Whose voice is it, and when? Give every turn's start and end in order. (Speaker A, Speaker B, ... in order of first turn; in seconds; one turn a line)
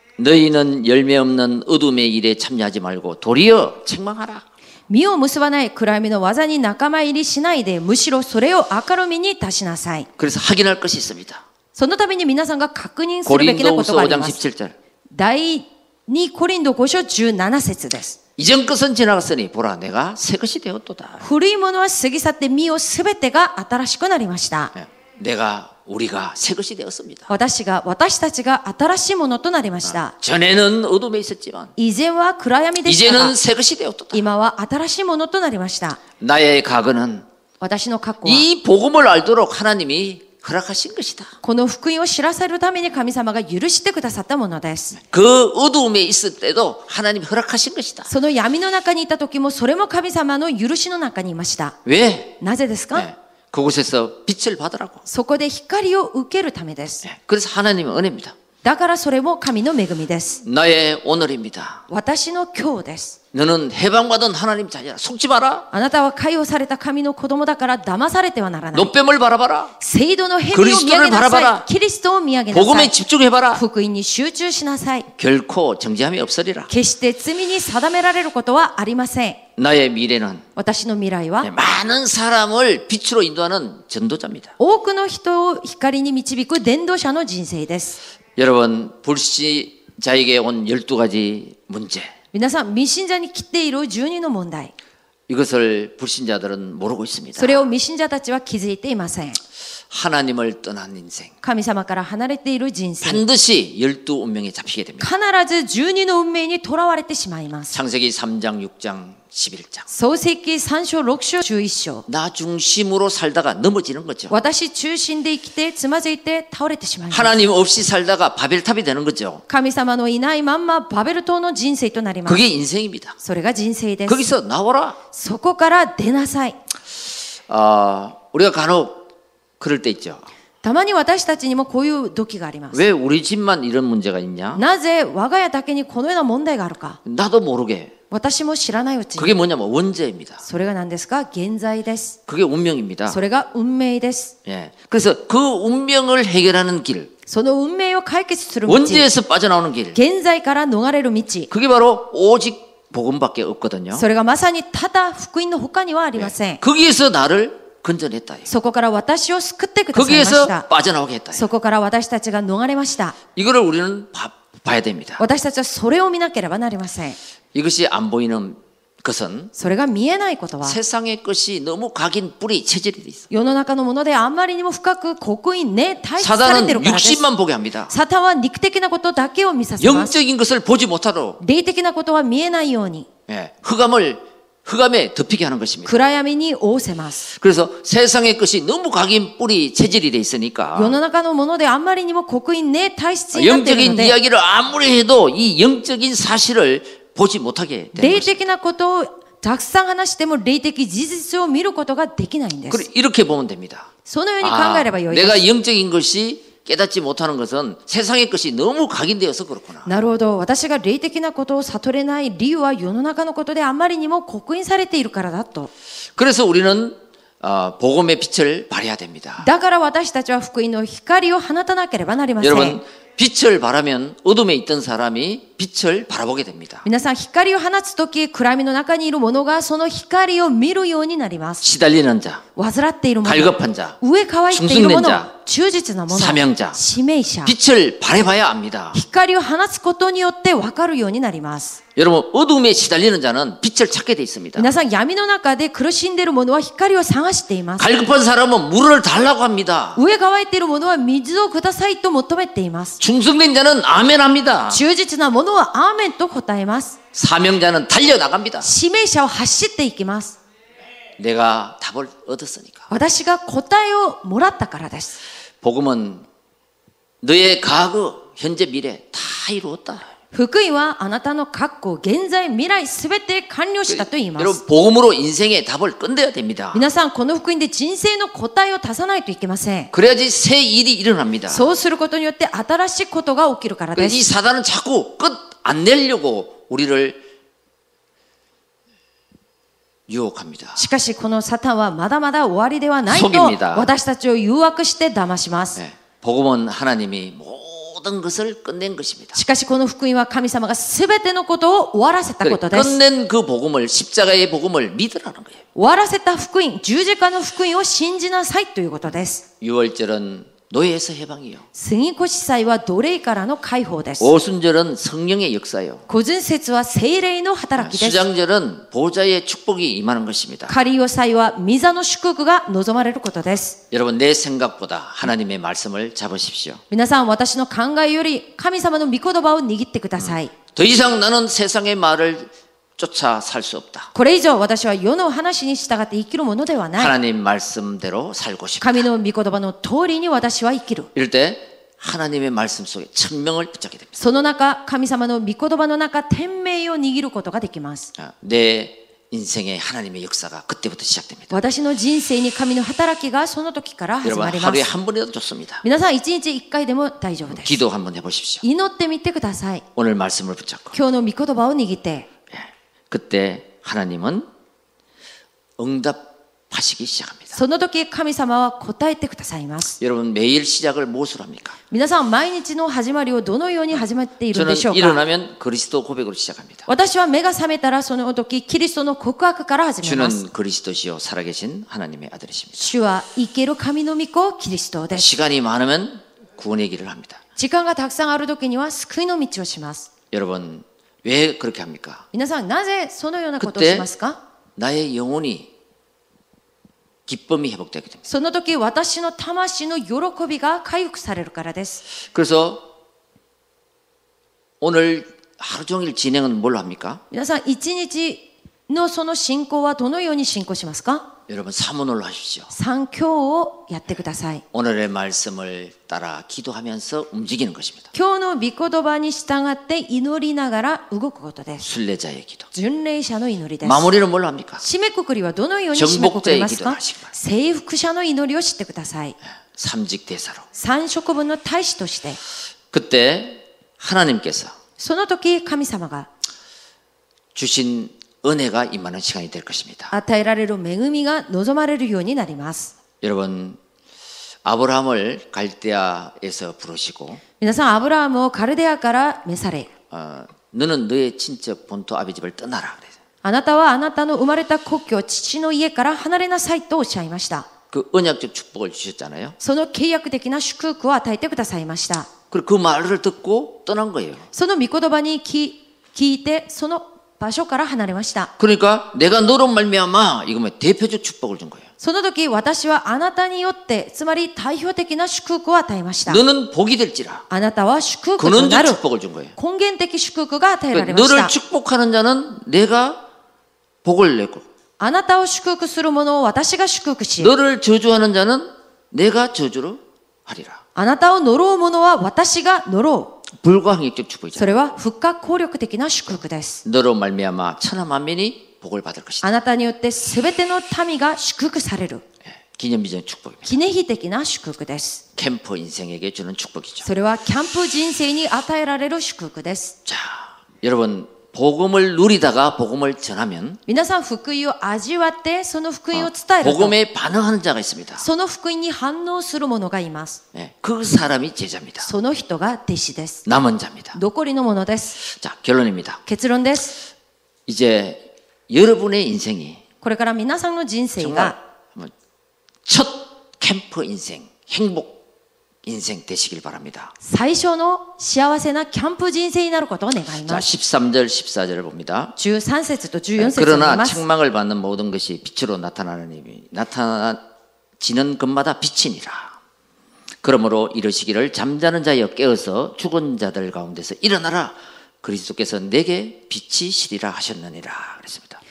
Speaker A: 0.2-4.5
Speaker B: 4.9-10.1
Speaker A: 10.2-11.4
Speaker B: 11.7-14.4
Speaker A: 13.2-14.8
Speaker B: 15.1-18.2
Speaker A: 18.4-21.2
Speaker B: 21.2-24.7
Speaker A: 24.7-27.3
Speaker B: 27.3-30.1
Speaker A: 30.1-31.7
Speaker B: 31.8-33.4
Speaker A: 32.8-34.2
Speaker B: 34.1-36.0
Speaker A: 36.2-37.2
Speaker B: 37.6-38.4
Speaker A: 38.2-41.3
Speaker B: 41.4-45.0
Speaker A: 45.0-48.1
Speaker B: 48.1-51.8
Speaker A: 51.8-52.4
Speaker B: 52.4-53.1
Speaker A: 52.9-55.0
Speaker B: 55.0-57.0
Speaker A: 57.0-58.3
Speaker B: 58.6-60.4
Speaker A: 60.4-61.8
Speaker B: 61.9-63.2
Speaker A: 63.3-65.7
Speaker B: 65.7-68.9
Speaker A: 68.7-69.7
Speaker B: 69.8-72.9
Speaker A: 70.5-71.7
Speaker A: 72.5-73.6
Speaker B: 73.5-75.1
Speaker A: 75.2-76.7
Speaker B: 76.7-79.4
Speaker A: 79.6-80.4
Speaker B: 80.5-81.5
Speaker A: 81.4-84.5
Speaker B: 84.6-88.0
Speaker A: 88.3-92.1
Speaker B: 92.3-94.7
Speaker A: 95.3-97.7
Speaker B: 97.4-99.4
Speaker A: 99.9-101.3
Speaker B: 101.4-103.2
Speaker A: 103.0-105.1
Speaker B: 105.0-107.7
Speaker A: 107.7-109.9
Speaker B: 109.9-112.0
Speaker A: 112.1-114.3
Speaker B: 114.3-117.4
Speaker A: 117.1-119.4
Speaker B: 119.5-122.4
Speaker A: 122.2-123.2
Speaker B: 123.2-124.2
Speaker A: 124.1-125.0
Speaker B: 125.1-126.6
Speaker A: 127.5-129.0
Speaker A: 129.6-130.2
Speaker B: 130.6-132.8
Speaker A: 132.7-134.6
Speaker B: 134.5-137.0
Speaker A: 137.0-137.9
Speaker B: 138.1-139.3
Speaker A: 139.2-140.4
Speaker B: 140.4-142.2
Speaker A: 142.3-143.2
Speaker B: 143.1-144.3
Speaker A: 144.4-147.1
Speaker B: 147.3-149.1
Speaker A: 148.7-150.0
Speaker B: 149.9-151.5
Speaker A: 151.5-154.0
Speaker B: 153.9-156.6
Speaker A: 156.2-158.5
Speaker B: 158.5-160.7
Speaker A: 159.9-161.5
Speaker B: 161.3-163.2
Speaker A: 163.3-165.2
Speaker B: 165.2-167.2
Speaker A: 167.5-169.5
Speaker B: 169.5-170.8
Speaker A: 170.6-173.3
Speaker B: 173.3-177.2
Speaker A: 176.2-177.9
Speaker B: 177.9-180.1
Speaker A: 179.8-181.4
Speaker B: 181.4-183.1
Speaker A: 183.3-186.0
Speaker B: 185.8-187.2
Speaker A: 187.3-191.0
Speaker B: 190.7-194.2
Speaker A: 193.3-198.4
Speaker B: 197.9-202.8
Speaker A: 202.7-203.9
Speaker B: 204.0-205.4
Speaker A: 204.4-209.9
Speaker B: 209.8-215.7
Speaker A: 216.2-219.5
Speaker B: 219.4-222.8
Speaker A: 222.4-226.8
Speaker B: 226.8-231.6
Speaker A: 231.6-232.4
Speaker B: 232.6-237.5
Speaker A: 233.2-234.0
Speaker A: 234.5-235.3
Speaker A: 236.1-236.8
Speaker A: 237.4-239.0
Speaker B: 238.9-241.8
Speaker A: 241.9-244.7
Speaker B: 244.6-247.9
Speaker A: 247.8-250.0
Speaker B: 249.9-253.0
Speaker A: 253.0-254.8
Speaker B: 254.7-257.0
Speaker A: 257.1-258.7
Speaker B: 258.6-260.4
Speaker A: 261.2-262.9
Speaker B: 262.9-265.2
Speaker A: 265.6-266.2
Speaker A: 267.2-270.1
Speaker B: 270.3-274.6
Speaker A: 273.9-276.8
Speaker B: 276.7-279.9
Speaker A: 279.9-281.7
Speaker B: 281.5-284.3
Speaker A: 283.9-287.2
Speaker A: 290.1-290.8
Speaker B: 290.8-295.8
Speaker A: 293.1-293.9
Speaker A: 295.8-299.4
Speaker B: 299.3-303.0
Speaker A: 302.4-305.6
Speaker B: 305.7-309.4
Speaker A: 309.6-311.6
Speaker B: 311.7-314.3
Speaker A: 314.2-316.0
Speaker B: 316.1-318.2
Speaker A: 317.8-320.7
Speaker B: 320.7-323.8
Speaker A: 323.9-326.8
Speaker B: 326.9-330.5
Speaker A: 330.2-334.1
Speaker B: 334.1-337.1
Speaker A: 337.0-339.0
Speaker B: 338.8-341.1
Speaker A: 341.1-344.2
Speaker B: 344.2-348.1
Speaker A: 348.2-351.6
Speaker B: 351.5-354.9
Speaker A: 354.2-355.8
Speaker B: 355.8-357.8
Speaker A: 357.5-358.6
Speaker B: 358.6-359.8
Speaker A: 359.9-360.9
Speaker B: 360.9-362.3
Speaker A: 362.5-364.4
Speaker A: 365.8-367.6
Speaker B: 367.5-370.0
Speaker A: 370.0-371.8
Speaker B: 371.9-375.2
Speaker A: 374.5-376.9
Speaker B: 376.9-380.4
Speaker A: 380.0-382.9
Speaker B: 382.8-385.3
Speaker A: 385.1-387.4
Speaker B: 387.6-390.1
Speaker A: 390.3-392.2
Speaker B: 392.3-394.4
Speaker A: 393.6-394.1
Speaker A: 394.8-395.7
Speaker A: 397.3-398.2
Speaker B: 398.3-402.0
Speaker A: 402.3-402.9
Speaker A: 404.8-407.2
Speaker B: 407.3-411.3
Speaker A: 411.5-412.7
Speaker B: 412.7-414.6
Speaker A: 414.7-418.1
Speaker B: 418.1-421.8
Speaker A: 421.8-422.7
Speaker B: 422.7-424.1
Speaker A: 423.8-424.8
Speaker B: 424.8-429.4
Speaker A: 425.9-427.3
Speaker A: 429.8-430.6
Speaker B: 430.7-432.4
Speaker A: 432.9-434.7
Speaker B: 435.0-436.3
Speaker A: 437.5-440.1
Speaker B: 440.1-442.9
Speaker A: 443.2-443.8
Speaker A: 444.6-447.4
Speaker B: 447.6-449.9
Speaker A: 450.1-453.1
Speaker B: 453.4-457.7
Speaker A: 457.9-459.6
Speaker B: 459.6-462.3
Speaker A: 462.5-464.4
Speaker B: 464.5-468.5
Speaker A: 468.6-471.9
Speaker B: 472.0-476.4
Speaker A: 476.3-477.4
Speaker B: 477.5-479.0
Speaker A: 478.4-479.5
Speaker B: 479.6-481.5
Speaker A: 480.9-483.2
Speaker A: 484.0-484.6
Speaker B: 485.0-487.5
Speaker A: 487.4-490.8
Speaker B: 490.9-493.4
Speaker A: 493.6-494.7
Speaker B: 494.6-496.8
Speaker A: 496.8-499.5
Speaker B: 499.4-502.2
Speaker A: 502.7-503.7
Speaker B: 503.6-505.2
Speaker A: 505.4-507.1
Speaker B: 507.0-509.9
Speaker A: 510.1-513.8
Speaker B: 513.9-516.9
Speaker A: 516.1-518.2
Speaker B: 518.2-520.4
Speaker A: 520.5-522.1
Speaker B: 522.0-523.4
Speaker A: 523.5-524.2
Speaker B: 524.1-525.2
Speaker A: 525.2-526.2
Speaker B: 526.2-527.0
Speaker A: 527.7-529.8
Speaker B: 530.0-531.6
Speaker A: 531.2-532.1
Speaker A: 532.9-535.2
Speaker A: 535.8-537.1
Speaker B: 537.2-540.6
Speaker A: 540.5-542.3
Speaker B: 542.4-544.2
Speaker A: 543.4-547.4
Speaker A: 548.0-549.5
Speaker A: 550.4-558.6